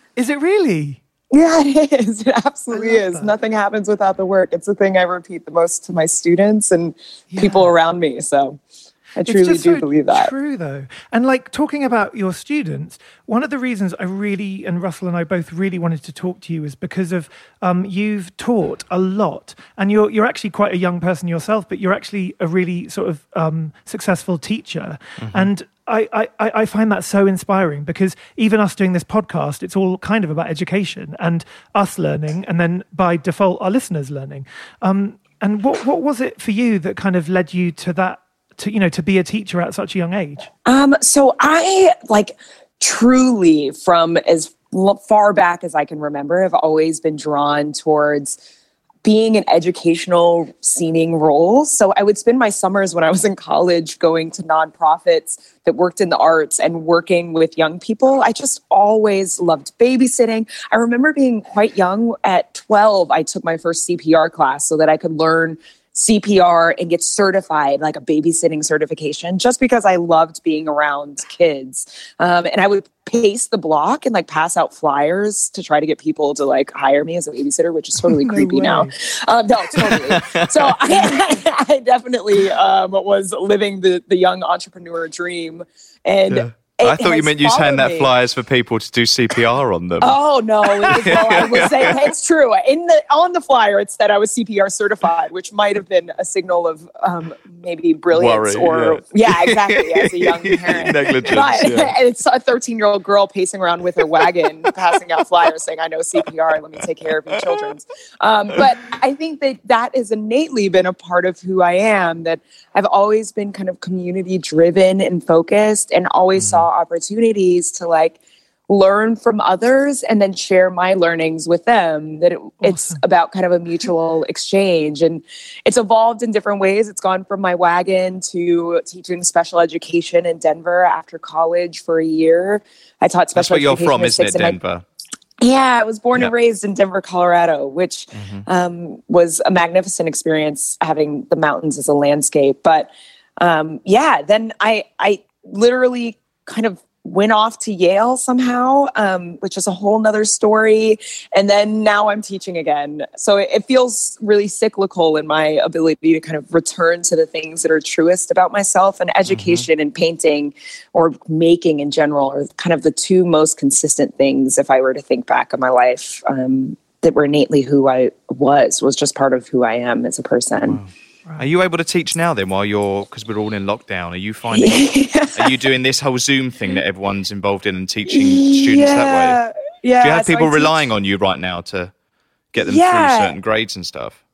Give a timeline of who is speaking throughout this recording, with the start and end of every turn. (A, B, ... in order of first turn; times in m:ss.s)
0:00.2-0:01.0 A
0:01.3-0:08.6 B
0:02.7-0:03.3 A
0:07.3-0:07.7 A
0:09.2-0:10.3 B
0:09.2-0:40.5 A
0:25.2-0:25.5 C
0:40.6-0:48.4 B
0:49.0-1:28.1 B
1:18.1-1:18.9 A
1:19.8-1:20.8 C
1:26.3-1:30.2 C
1:30.0-2:14.6 B
1:30.8-1:32.0 C
1:38.1-1:42.0 C
1:56.4-1:56.7 C
2:02.6-2:03.0 A
2:13.3-2:14.8 C
2:15.4-2:50.8 B
2:18.1-2:18.4 C
2:39.3-2:39.7 C
2:50.6-2:59.4 C
2:54.5-2:55.6 B
2:58.1-3:00.8 B
3:00.0-3:01.9 C
3:02.5-3:04.2 C
3:02.6-3:03.4 B